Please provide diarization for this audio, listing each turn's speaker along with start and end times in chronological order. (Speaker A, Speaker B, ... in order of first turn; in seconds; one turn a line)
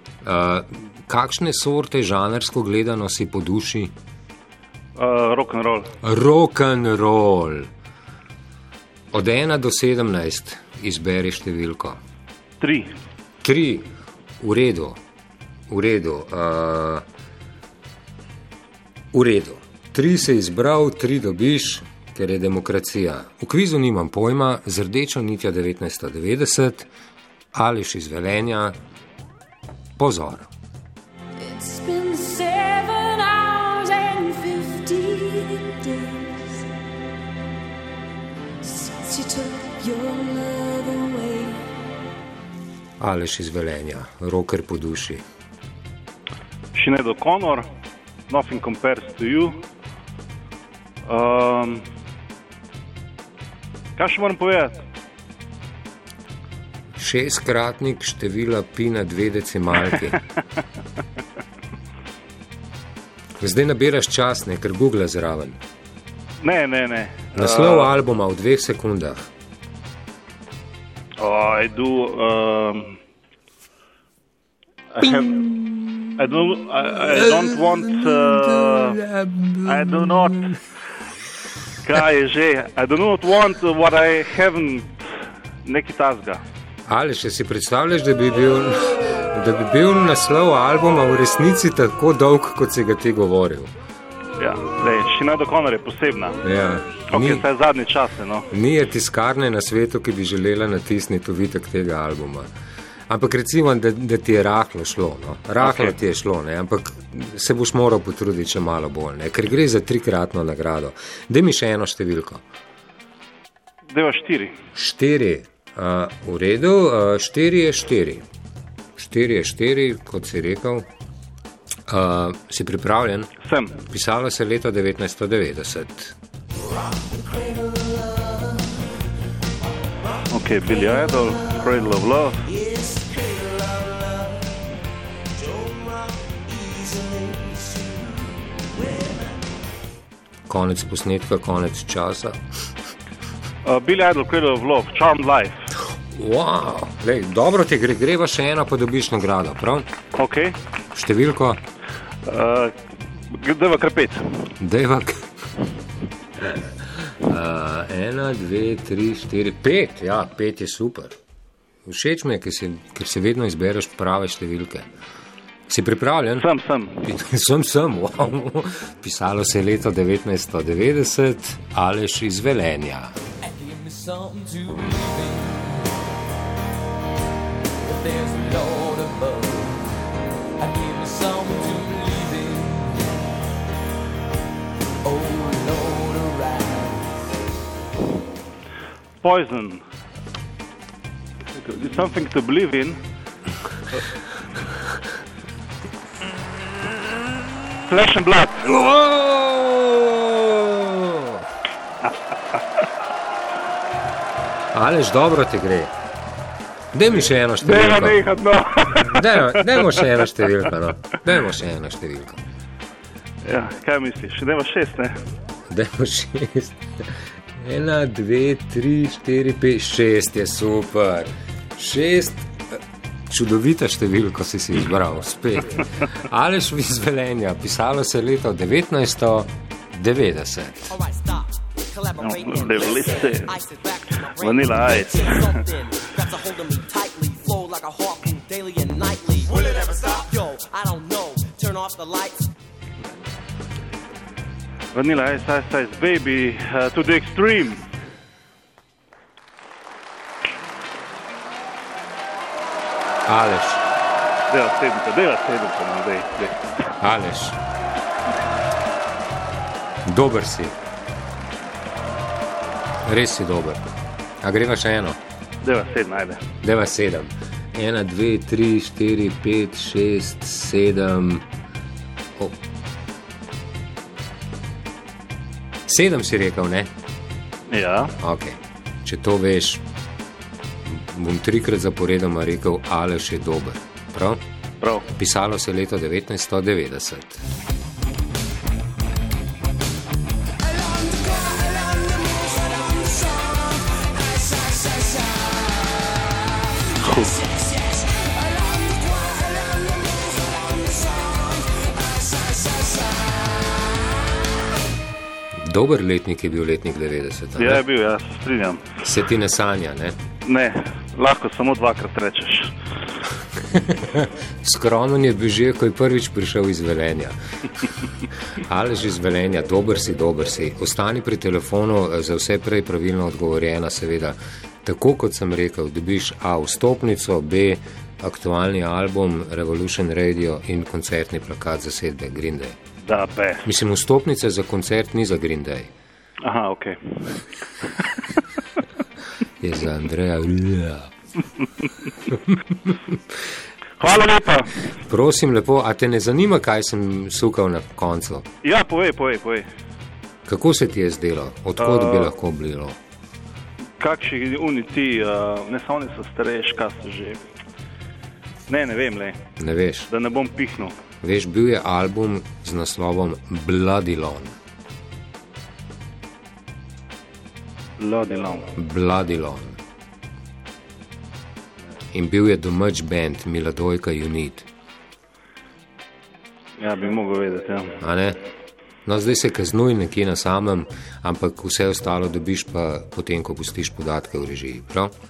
Speaker A: 0.2-3.9
Speaker B: 5.0-5.9
Speaker A: 6.0-7.7
Speaker A: 9.1-12.0
Speaker B: 12.6-12.9
Speaker A: 13.4-13.9
Speaker A: 14.4-15.0
Speaker A: 15.7-17.1
Speaker A: 19.1-26.9
Speaker A: 27.5-28.8
Speaker A: 30.0-30.5
Speaker C: 31.4-36.7
Speaker C: 38.6-41.7
Speaker A: 43.0-45.2
Speaker B: 46.7-47.7
Speaker B: 48.3-49.5
Speaker B: 51.1-51.8
Speaker B: 54.0-54.8
Speaker A: 57.0-60.2
Speaker A: 63.4-65.6
Speaker B: 66.4-67.9
Speaker A: 67.3-69.3
Speaker B: 71.2-73.0
Speaker B: 74.9-75.5
Speaker A: 75.2-76.1
Speaker B: 76.2-79.0
Speaker A: 77.0-80.6
Speaker B: 79.7-80.6
Speaker B: 81.8-85.1
Speaker B: 85.6-86.4
Speaker A: 86.9-93.7
Speaker B: 94.4-96.4
Speaker A: 96.4-97.5
Speaker B: 97.1-98.5
Speaker A: 98.5-102.5
Speaker A: 103.1-112.4
Speaker B: 105.6-105.9
Speaker B: 113.9-114.6
Speaker A: 114.8-118.2
Speaker A: 119.0-120.9
Speaker A: 121.9-126.2
Speaker B: 123.4-123.8
Speaker D: 127.1-128.8
Speaker B: 130.3-132.6
Speaker E: 132.6-134.6
Speaker E: 135.4-139.2
Speaker A: 140.5-142.4
Speaker B: 143.7-145.6
Speaker A: 146.1-149.9
Speaker B: 150.2-150.6
Speaker A: 150.9-151.6
Speaker B: 152.3-152.7
Speaker B: 153.3-154.5
Speaker A: 154.6-155.3
Speaker A: 156.4-161.2
Speaker A: 161.9-164.9
Speaker A: 165.7-166.5
Speaker B: 166.4-167.0
Speaker A: 167.0-173.2
Speaker D: 173.4-175.9
Speaker D: 177.8-179.9
Speaker D: 180.6-183.2
Speaker D: 185.0-187.1
Speaker B: 189.2-189.8
Speaker B: 191.5-193.0
Speaker B: 197.9-198.7
Speaker A: 198.7-201.5
Speaker A: 204.7-205.9
Speaker A: 206.9-208.2
Speaker B: 207.6-210.1
Speaker A: 208.9-212.4
Speaker B: 213.4-215.2
Speaker A: 215.7-231.0
Speaker E: 230.9-242.5
Speaker B: 232.2-233.6
Speaker B: 234.3-235.6
Speaker B: 244.9-247.8
Speaker A: 253.3-253.8
Speaker B: 254.5-256.6
Speaker A: 257.0-257.6
Speaker A: 260.1-260.8
Speaker A: 263.0-265.2
Speaker B: 265.6-266.5
Speaker A: 266.6-271.5
Speaker A: 275.9-276.9
Speaker B: 277.7-278.1
Speaker A: 278.2-279.9
Speaker A: 280.9-284.4
Speaker B: 284.8-285.1
Speaker A: 285.1-287.4
Speaker E: 290.8-294.9
Speaker B: 296.9-297.4
Speaker E: 298.1-299.4
Speaker E: 300.0-302.2
Speaker C: 302.7-303.1
Speaker A: 305.6-307.8
Speaker B: 307.6-308.9
Speaker A: 309.0-310.2
Speaker B: 310.4-312.8
Speaker A: 313.6-317.4
Speaker A: 318.6-332.8
Speaker B: 333.0-333.7
Speaker A: 333.6-335.9
Speaker B: 336.4-338.2
Speaker A: 339.6-341.1
Speaker A: 342.3-343.1
Speaker B: 344.0-344.7
Speaker A: 345.0-348.5
Speaker B: 348.6-349.7
Speaker A: 350.5-353.0
Speaker B: 351.8-352.3
Speaker B: 354.0-357.4
Speaker B: 358.7-359.4
Speaker A: 359.6-360.1
Speaker B: 360.1-361.0
Speaker A: 361.2-364.6
Speaker B: 368.0-368.7
Speaker A: 368.8-369.8
Speaker A: 372.1-374.7
Speaker B: 376.8-378.0
Speaker A: 378.0-378.4
Speaker A: 379.1-385.1